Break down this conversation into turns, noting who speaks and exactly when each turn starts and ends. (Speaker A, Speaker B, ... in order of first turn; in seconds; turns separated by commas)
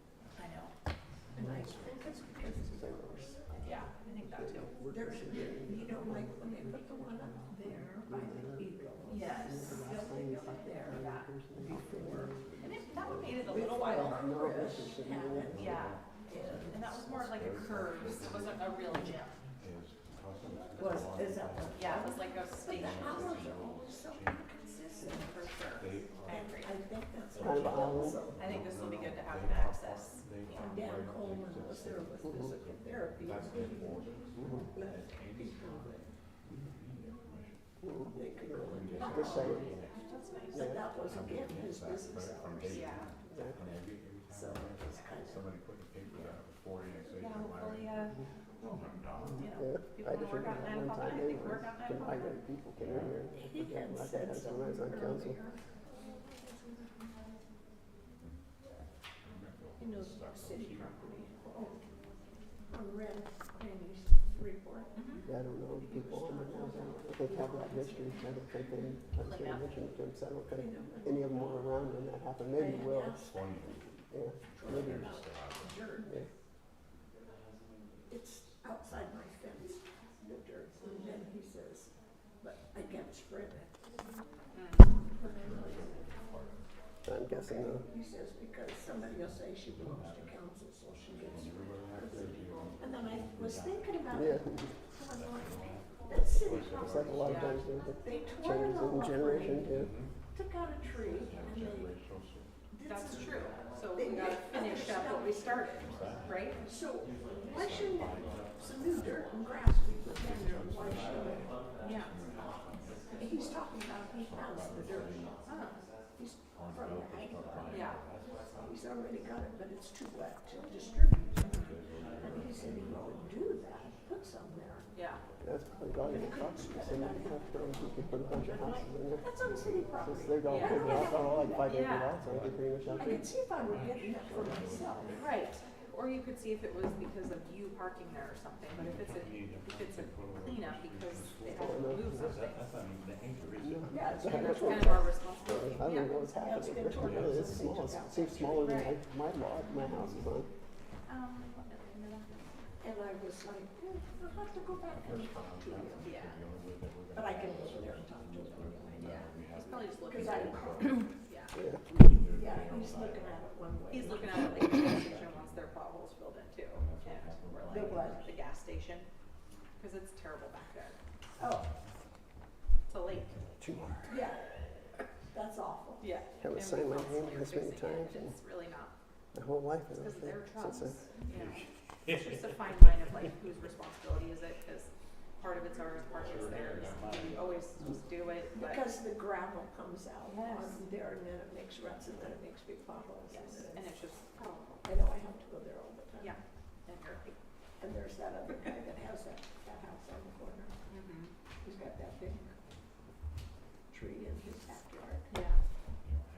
Speaker A: 0.4-0.7, Speaker B: 1.4-3.9, Speaker C: 1.4-1.8, Speaker C: 2.7-3.1, Speaker A: 3.6-4.7, Speaker C: 4.3-8.7, Speaker B: 4.9-11.0, Speaker A: 9.1-11.3, Speaker C: 9.3-15.8, Speaker B: 11.5-12.4, Speaker A: 12.6-14.3, Speaker B: 13.4-17.9, Speaker A: 15.5-16.0, Speaker A: 16.6-19.4, Speaker B: 20.8-25.4, Speaker A: 21.8-23.5, Speaker A: 25.0-26.7, Speaker B: 26.2-28.4, Speaker C: 27.4-28.2, Speaker A: 28.4-30.2, Speaker B: 30.5-36.1, Speaker C: 37.8-39.8, Speaker B: 38.1-39.9, Speaker A: 39.9-40.6, Speaker C: 40.5-40.9, Speaker B: 40.5-43.1, Speaker A: 42.7-43.1, Speaker C: 43.3-43.6, Speaker B: 44.3-45.5, Speaker A: 47.2-48.2, Speaker A: 49.4-52.4, Speaker C: 49.5-55.4, Speaker B: 53.3-57.0, Speaker B: 59.8-61.8, Speaker B: 62.7-64.9, Speaker A: 65.0-65.2, Speaker C: 65.2-73.4, Speaker B: 65.7-68.3, Speaker A: 69.2-69.7, Speaker B: 70.5-71.3, Speaker B: 72.5-73.8, Speaker C: 74.1-75.2, Speaker B: 74.5-76.3, Speaker B: 78.1-83.7, Speaker A: 84.5-85.0, Speaker B: 85.1-86.2, Speaker C: 87.0-87.8, Speaker B: 87.3-102.0, Speaker C: 94.1-94.7, Speaker C: 96.7-99.9, Speaker A: 97.2-97.6, Speaker B: 102.7-105.8, Speaker A: 102.8-106.6, Speaker B: 106.6-111.5, Speaker A: 111.8-112.2, Speaker B: 113.1-115.4, Speaker A: 115.5-115.8, Speaker B: 116.2-118.0, Speaker A: 117.7-118.0, Speaker B: 118.6-124.9, Speaker A: 121.4-121.8, Speaker A: 124.9-125.2, Speaker C: 125.4-129.2, Speaker B: 126.0-127.5, Speaker B: 128.4-132.0, Speaker C: 130.0-133.3, Speaker A: 130.4-132.2, Speaker B: 132.9-135.2, Speaker A: 135.1-142.7, Speaker C: 141.5-142.3, Speaker C: 143.6-150.5, Speaker B: 143.9-145.1, Speaker A: 144.3-146.2, Speaker B: 146.4-148.8, Speaker A: 148.6-149.0, Speaker A: 151.1-152.5, Speaker B: 152.8-156.2, Speaker A: 156.0-156.4, Speaker B: 157.1-159.3, Speaker A: 159.0-161.6, Speaker B: 160.0-161.1, Speaker C: 161.5-161.8, Speaker B: 162.3-165.0, Speaker A: 163.9-169.1, Speaker B: 167.7-168.2, Speaker A: 169.8-171.0, Speaker B: 171.4-171.7, Speaker A: 172.9-173.4, Speaker C: 173.6-174.2, Speaker B: 174.1-174.5, Speaker B: 175.3-176.1, Speaker A: 176.0-178.9, Speaker C: 176.4-178.3, Speaker C: 179.3-181.1, Speaker A: 179.9-188.9, Speaker B: 188.6-193.9, Speaker A: 190.3-190.8, Speaker A: 193.3-194.8, Speaker B: 194.8-196.4, Speaker A: 196.2-197.3, Speaker B: 197.8-200.7, Speaker A: 200.9-201.3, Speaker B: 201.6-202.5, Speaker B: 203.9-205.3, Speaker A: 205.3-205.6